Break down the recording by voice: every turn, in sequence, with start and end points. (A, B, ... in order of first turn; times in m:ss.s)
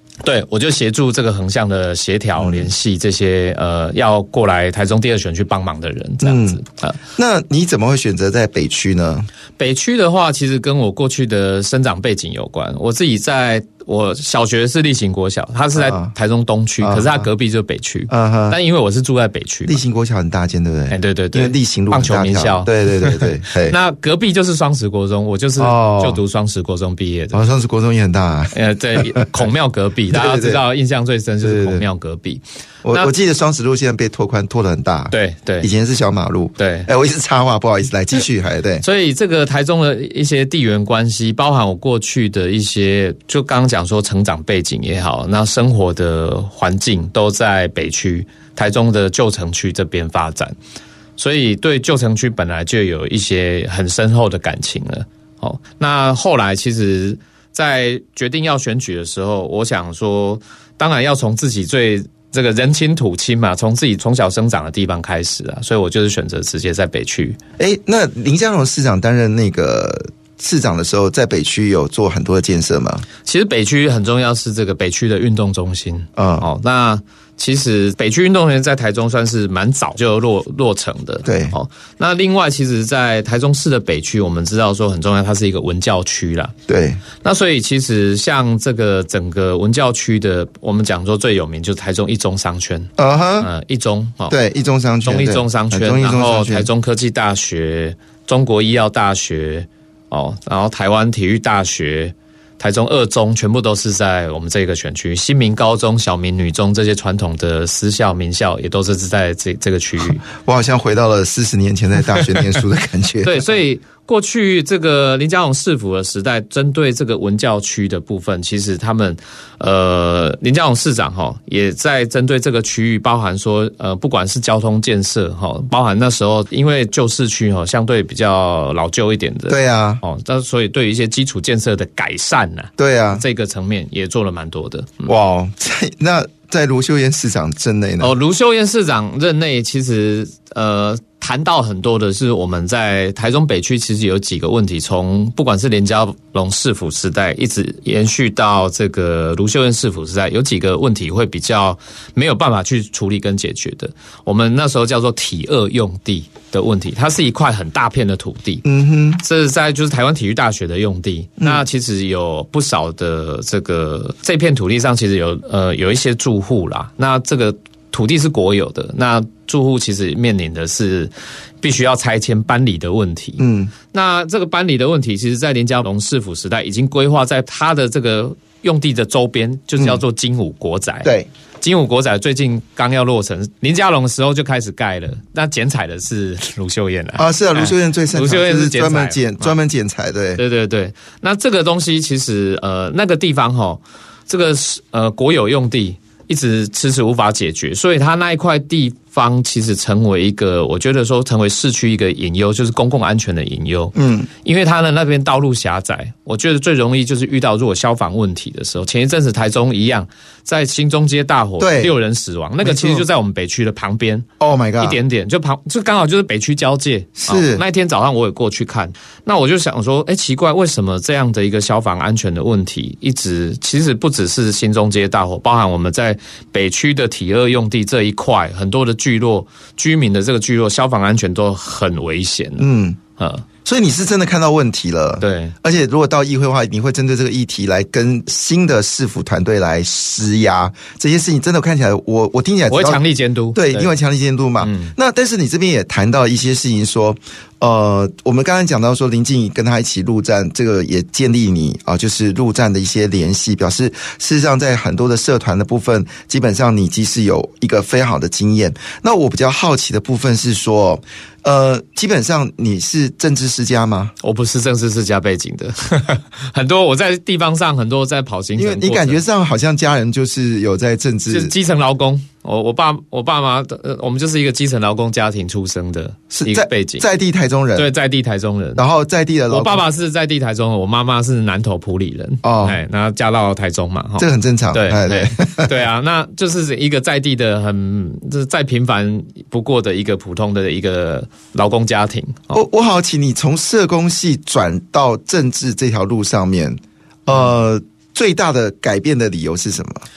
0:00.2-0:07.0 A
0:02.4-0:02.7 B
0:06.2-0:06.6 B
0:07.2-0:09.3 B
0:09.6-0:19.8 A
0:15.7-0:16.1 B
0:16.8-0:17.3 B
0:18.1-0:18.6 B
0:19.6-0:23.8 B
0:20.9-0:27.4 A
0:25.6-0:26.2 B
0:27.3-0:29.4 B
0:28.5-0:33.1 A
0:30.1-0:30.6 B
0:31.4-0:31.8 B
0:32.8-0:38.8 B
0:35.1-0:35.7 A
0:36.6-0:36.9 A
0:38.8-0:50.6 A
0:51.2-1:07.4 A
1:07.6-1:13.0 B
1:13.2-1:26.5 A
1:16.2-1:16.4 B
1:21.2-1:21.5 B
1:26.7-1:27.0 B
1:27.2-1:34.4 A
1:33.0-1:33.5 B
1:34.3-1:36.7 B
1:35.0-1:50.2 A
1:50.4-1:53.5 B
1:53.2-2:15.1 A
2:09.5-2:10.0 B
2:12.8-2:13.2 B
2:15.0-2:18.1 B
2:18.0-2:38.6 A
2:38.6-2:39.2 B
2:39.2-3:09.6 A
2:53.4-2:53.7 B
3:07.2-3:10.4 B
3:10.4-3:34.2 A
3:23.9-3:24.3 B
3:31.6-3:32.0 B
3:32.6-3:33.0 B
3:34.4-3:35.0 B
3:34.8-3:53.4 A
3:37.2-3:37.6 B
3:52.6-3:53.0 B
3:53.6-4:03.0 B
3:55.2-3:55.5 A
4:02.7-4:03.9 A
4:03.5-4:24.1 B
4:04.6-4:04.9 A
4:24.2-4:29.2 A
4:28.6-4:31.5 B
4:31.3-4:37.1 A
4:36.3-4:37.9 B
4:37.8-4:38.8 A
4:38.8-4:39.8 B
4:39.5-4:52.6 A
4:42.4-4:42.8 B
4:44.2-4:45.7 B
4:52.5-5:00.0 B